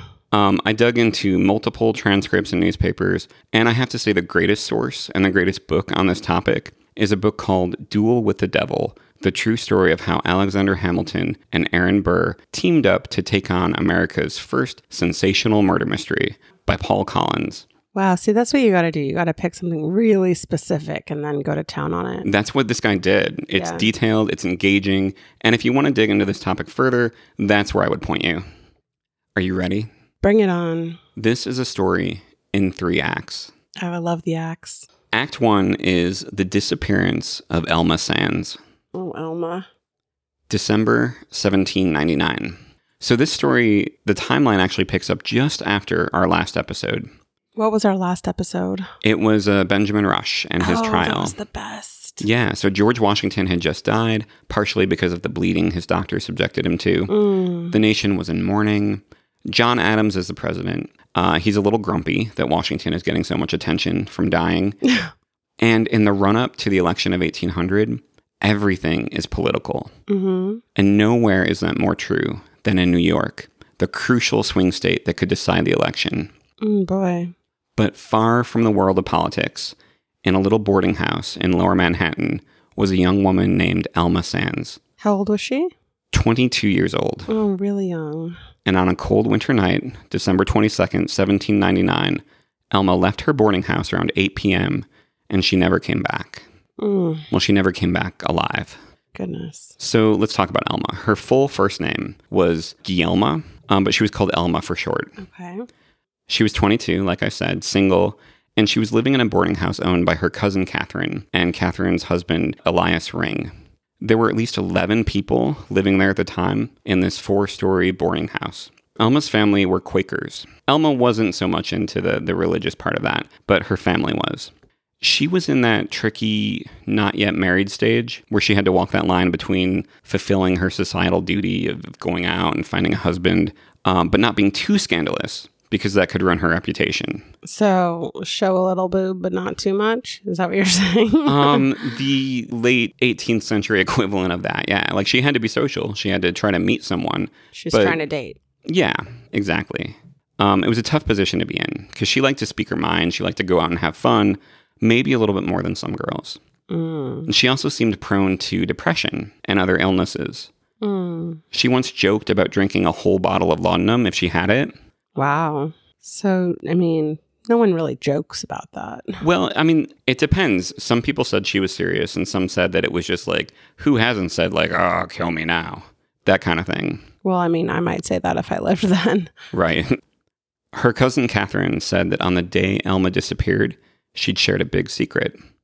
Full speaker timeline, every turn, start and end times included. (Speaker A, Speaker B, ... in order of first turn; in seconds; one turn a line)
Speaker A: 0.3-17.6
Speaker B: 17.9-22.3
Speaker A: 22.2-28.4
Speaker B: 23.5-23.9
Speaker A: 29.3-29.9
Speaker B: 30.2-31.0
Speaker A: 31.1-33.5
Speaker B: 33.8-34.9
Speaker A: 35.1-38.6
Speaker B: 38.9-39.6
Speaker A: 40.5-47.1
Speaker B: 47.6-48.9
Speaker A: 49.0-51.4
Speaker B: 50.6-52.2
Speaker A: 52.2-64.8
Speaker B: 57.1-57.8
Speaker A: 65.6-69.9
Speaker B: 70.1-70.6
Speaker A: 70.7-76.3
Speaker B: 76.6-77.3
Speaker A: 77.8-84.8
Speaker B: 85.0-85.7
Speaker A: 86.1-87.3
Speaker B: 87.3-88.4
Speaker A: 88.6-96.4
Speaker B: 96.8-97.3
Speaker A: 97.3-98.8
Speaker B: 99.1-99.8
Speaker A: 99.8-105.1
Speaker B: 105.2-105.7
Speaker A: 106.3-137.3
Speaker B: 137.4-141.7
Speaker A: 141.2-148.0
Speaker B: 147.5-148.4
Speaker A: 148.6-156.4
Speaker B: 156.7-157.3
Speaker A: 157.3-160.5
Speaker B: 160.8-161.4
Speaker A: 161.5-164.7
Speaker B: 165.2-169.2
Speaker A: 169.2-177.0
Speaker B: 177.2-179.3
Speaker A: 179.5-180.0
Speaker A: 180.7-185.3